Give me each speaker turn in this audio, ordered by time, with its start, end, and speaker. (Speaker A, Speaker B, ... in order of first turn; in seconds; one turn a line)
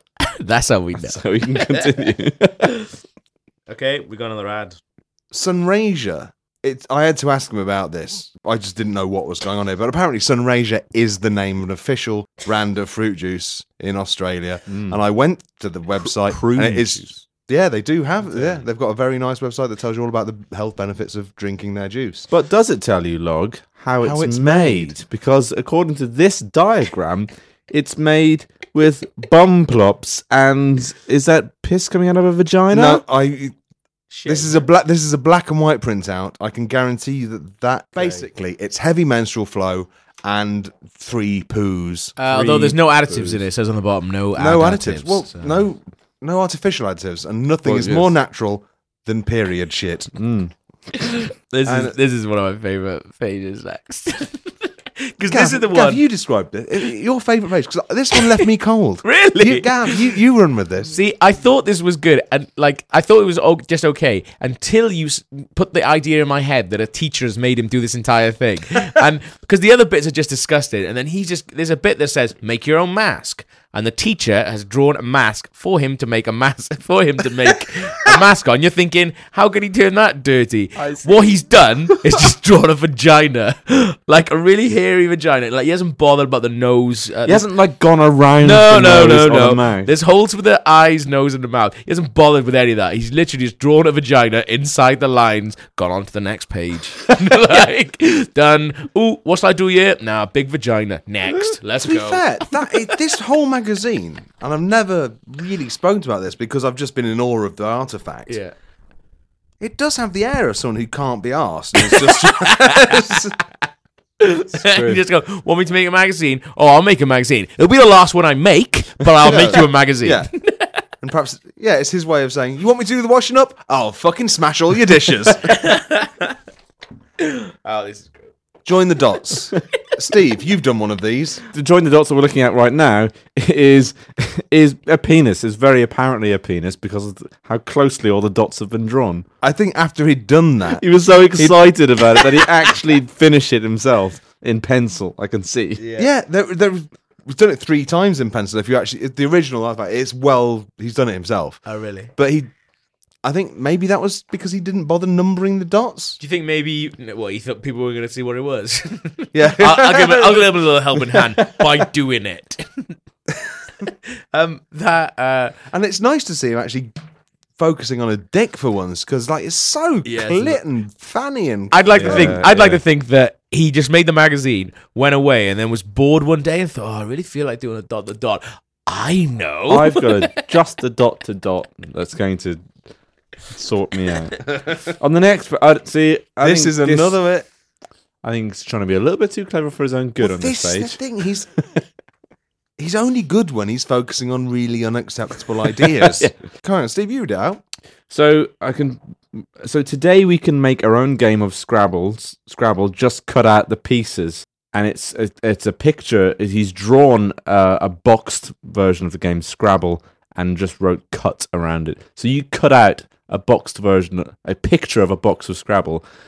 Speaker A: 0.2-1.9
Speaker B: 1.0-2.7
Speaker A: 3.7-4.8
Speaker C: 5.3-22.3
Speaker B: 14.7-15.0
Speaker B: 16.0-17.2
Speaker B: 18.3-18.6
Speaker B: 22.3-33.0
Speaker C: 24.0-24.9
Speaker C: 32.7-33.5
Speaker A: 34.1-34.6
Speaker C: 34.2-42.1
Speaker A: 42.2-45.6
Speaker B: 42.2-43.4
Speaker C: 44.4-50.1
Speaker B: 47.6-48.1
Speaker B: 50.1-50.5
Speaker A: 50.9-56.0
Speaker C: 51.6-51.9
Speaker C: 55.3-60.9
Speaker A: 59.0-60.1
Speaker A: 60.8-87.5
Speaker B: 80.8-81.4
Speaker B: 87.2-89.9
Speaker A: 88.4-102.3
Speaker C: 101.8-108.4
Speaker A: 108.3-108.5
Speaker C: 109.6-113.4
Speaker A: 111.8-113.3
Speaker A: 114.2-120.7
Speaker B: 114.6-115.0
Speaker C: 119.2-120.3
Speaker C: 121.0-125.6
Speaker A: 125.4-126.3
Speaker A: 127.2-128.3
Speaker C: 128.6-131.4
Speaker B: 131.5-139.2
Speaker C: 139.4-140.8
Speaker B: 140.7-145.8
Speaker A: 145.8-146.1
Speaker C: 146.0-151.6
Speaker A: 151.7-152.1
Speaker C: 152.2-152.5
Speaker C: 153.2-156.2
Speaker A: 156.2-162.9
Speaker C: 159.3-160.6
Speaker A: 164.3-165.6
Speaker C: 165.7-166.9
Speaker C: 167.6-172.5
Speaker A: 170.0-170.6
Speaker A: 171.7-180.5
Speaker B: 172.0-172.8
Speaker B: 179.7-182.7
Speaker B: 183.5-187.2
Speaker C: 186.4-187.4
Speaker B: 188.2-191.0
Speaker C: 190.2-191.7
Speaker C: 192.8-197.6
Speaker B: 196.0-196.3
Speaker B: 198.1-216.0